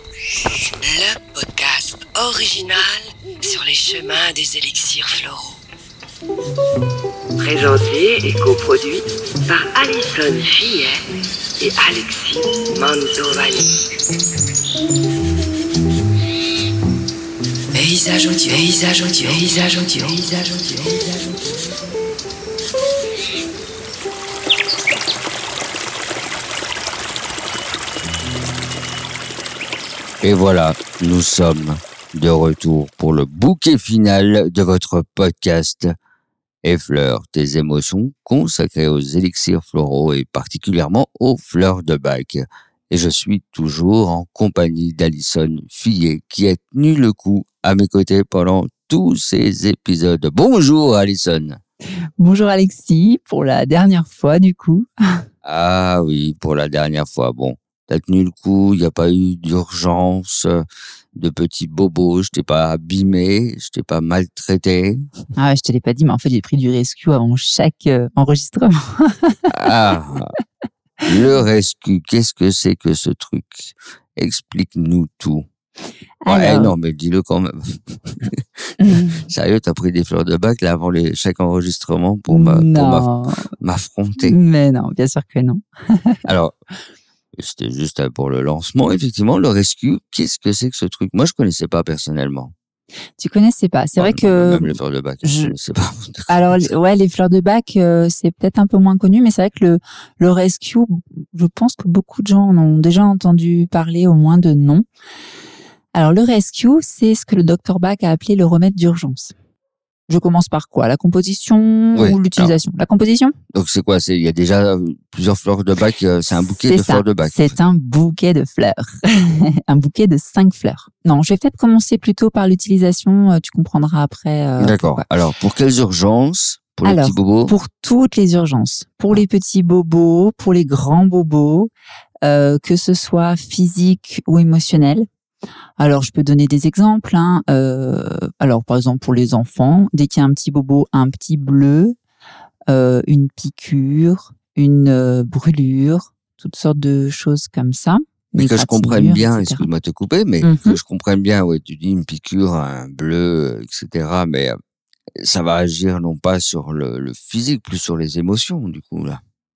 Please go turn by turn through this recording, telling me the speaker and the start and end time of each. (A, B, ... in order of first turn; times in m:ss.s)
0:00.8-0:05.6 A
0:07.4-0:11.0 A
0:11.6-0:13.7 A
0:17.7-0:21.3 A
0:30.2-0:35.9 B
0:36.6-0:51.6 B
0:52.2-0:54.9 C
0:55.4-1:00.6 B
1:01.1-1:05.0 B
1:05.4-1:09.5 C
1:09.5-1:10.3 B
1:11.0-1:15.5 B
1:16.2-1:16.7 C
1:16.3-1:24.4 B
1:18.8-1:19.2 C
1:22.3-1:23.4 C
1:24.2-1:26.2 C
1:26.3-1:26.5 B
1:27.4-1:32.5 B
1:33.2-1:35.5 C
1:34.0-1:36.7 B
1:36.3-1:44.8 C
1:45.9-1:49.3 C
1:50.1-1:53.3 C
1:51.9-1:52.5 B
1:53.5-1:57.5 B
1:56.6-2:05.0 C
2:04.6-2:07.5 B
2:06.8-2:11.7 C
2:12.2-2:15.1 C
2:15.8-2:22.0 C
2:22.7-2:29.7 C
2:28.4-2:34.6 B
2:30.4-2:30.8 C
2:35.2-2:39.2 B